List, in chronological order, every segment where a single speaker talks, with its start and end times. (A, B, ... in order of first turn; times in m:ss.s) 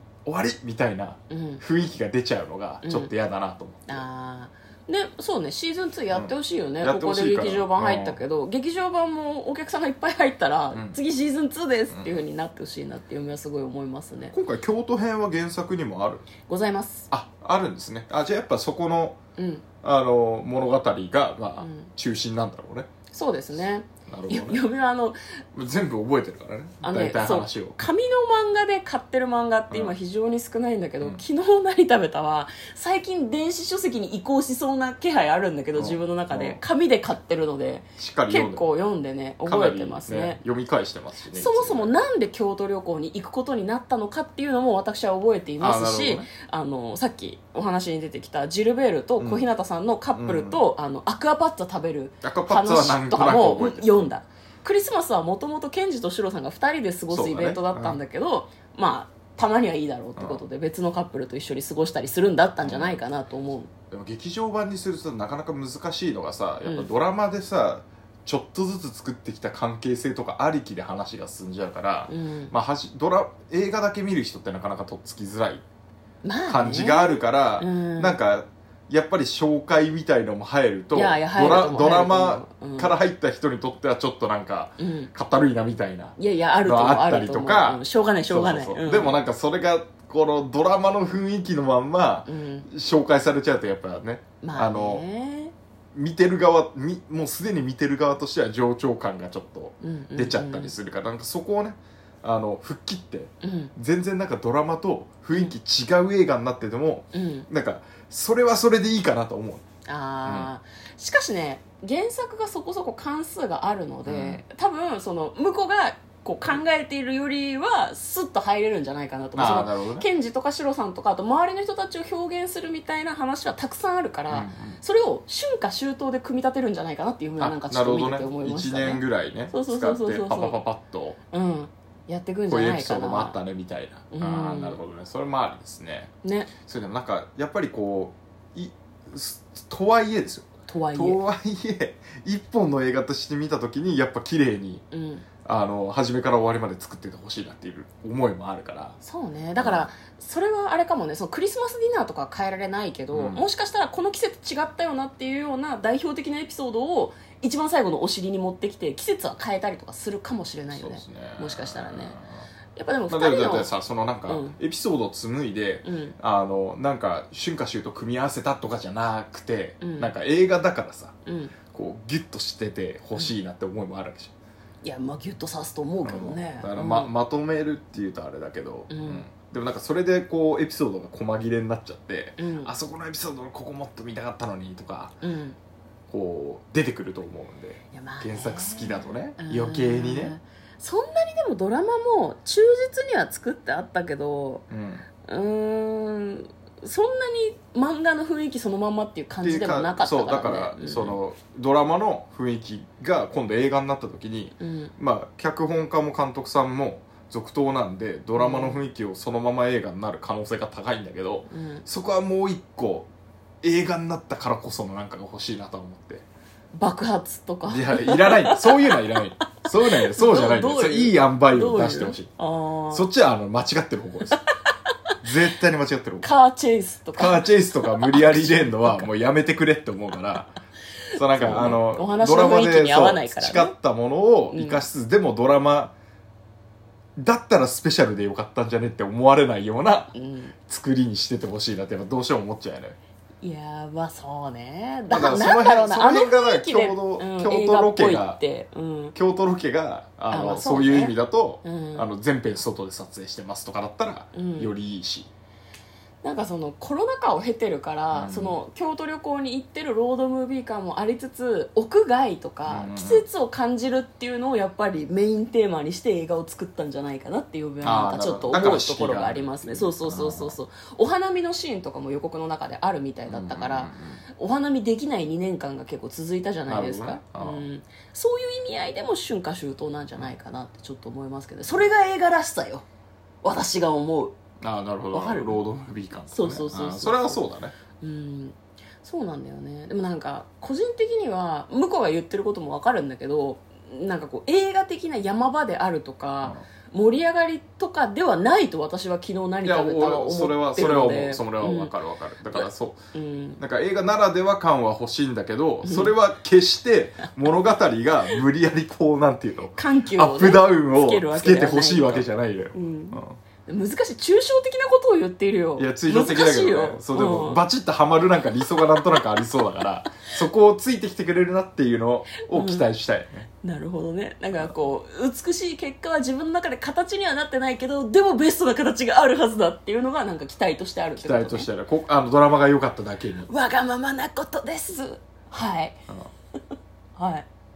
0:00.2-0:04.0 A
0:01.3-0:01.6 B
0:02.8-0:03.1 B
0:03.9-0:14.3 B
0:06.1-0:08.2 A
0:10.7-0:11.0 A
0:11.9-0:12.2 A
0:14.3-0:16.3 A
0:16.4-0:17.1 B
0:17.1-0:19.2 A
0:19.4-0:19.6 B
0:19.8-0:22.9 A
0:21.6-0:21.9 B
0:23.1-0:25.2 B
0:24.1-0:24.6 A
0:25.5-0:27.8 A
0:26.8-0:40.4 B
0:29.7-0:30.0 A
0:35.7-0:36.6 A
0:38.0-0:38.6 A
0:39.4-0:41.9 A
0:41.3-1:03.7 B
0:45.6-0:46.3 A
0:49.2-0:49.5 A
0:50.1-0:50.6 A
0:52.2-0:54.1 A
0:57.1-0:58.0 A
1:00.2-1:00.4 A
1:02.6-1:03.0 A
1:03.9-1:15.6 A
1:06.6-1:06.9 B
1:12.1-1:12.5 B
1:16.2-1:18.2 B
1:16.5-1:35.0 A
1:20.9-1:22.9 B
1:24.8-1:25.1 B
1:26.2-1:29.2 B
1:32.2-1:32.7 B
1:34.4-1:35.5 B
1:35.9-1:49.6 A
1:39.8-1:40.7 B
1:43.4-1:43.7 B
1:47.1-1:47.5 B
1:49.8-2:10.6 B
1:50.2-1:50.5 A
1:54.0-1:54.4 A
1:59.4-2:00.1 A
2:04.3-2:04.8 A
2:07.4-2:11.2 A
2:11.3-2:13.4 B
2:12.5-2:16.1 A
2:14.1-2:14.8 B
2:16.2-2:16.5 B
2:16.6-2:24.8 A
2:20.7-2:21.2 B
2:24.9-2:25.2 B
2:25.4-2:29.0 A
2:29.0-2:42.2 B
2:29.6-2:29.9 A
2:33.1-2:33.4 A
2:40.7-2:42.4 A
2:42.7-2:43.7 B
2:43.1-2:51.1 A
2:44.3-2:44.6 B
2:45.8-2:46.2 B
2:49.8-2:50.1 B
2:51.2-2:51.5 B
2:51.7-2:54.3 A
2:54.8-2:57.1 B
2:56.0-3:05.1 A
2:58.9-2:59.2 B
3:02.4-3:02.7 B
3:05.2-3:05.6 B
3:06.1-3:10.3 A
3:07.9-3:14.7 B
3:14.7-3:15.0 A
3:15.2-3:21.2 B
3:19.4-3:33.1 A
3:24.6-3:24.9 B
3:28.4-3:28.8 B
3:31.5-3:31.8 B
3:33.6-3:36.2 A
3:36.7-3:39.4 B
3:37.7-3:42.3 A
3:40.0-3:43.1 B
3:42.9-3:44.4 A
3:45.2-3:46.3 A
3:46.2-3:49.1 B
3:47.1-3:50.5 A
3:51.1-3:55.9 A
3:51.3-3:53.7 B
3:54.5-3:54.8 B
3:57.2-4:00.1 A
4:00.1-4:00.5 B
4:00.7-4:03.0 A
4:03.4-4:09.1 B
4:05.1-4:08.4 A
4:09.1-4:15.3 A
4:10.3-4:12.1 B
4:14.3-4:14.7 B
4:16.2-4:42.8 B
4:18.1-4:18.6 A
4:22.6-4:23.2 A
4:27.8-4:30.6 A
4:33.3-4:34.2 A
4:36.7-4:37.7 A
4:43.4-4:44.3 B
4:44.6-4:47.7 A
4:45.1-4:45.6 B
4:46.3-4:47.4 B
4:48.0-5:01.9 B
4:59.6-5:03.0 A
5:02.5-5:03.6 B
5:03.6-5:13.4 A
5:05.8-5:06.1 B
5:09.7-5:17.6 B
5:15.8-5:23.5 A
5:22.5-5:22.8 B
5:23.6-5:31.7 B
5:31.2-5:33.5 A
5:33.5-5:36.0 B
5:37.2-5:37.5 B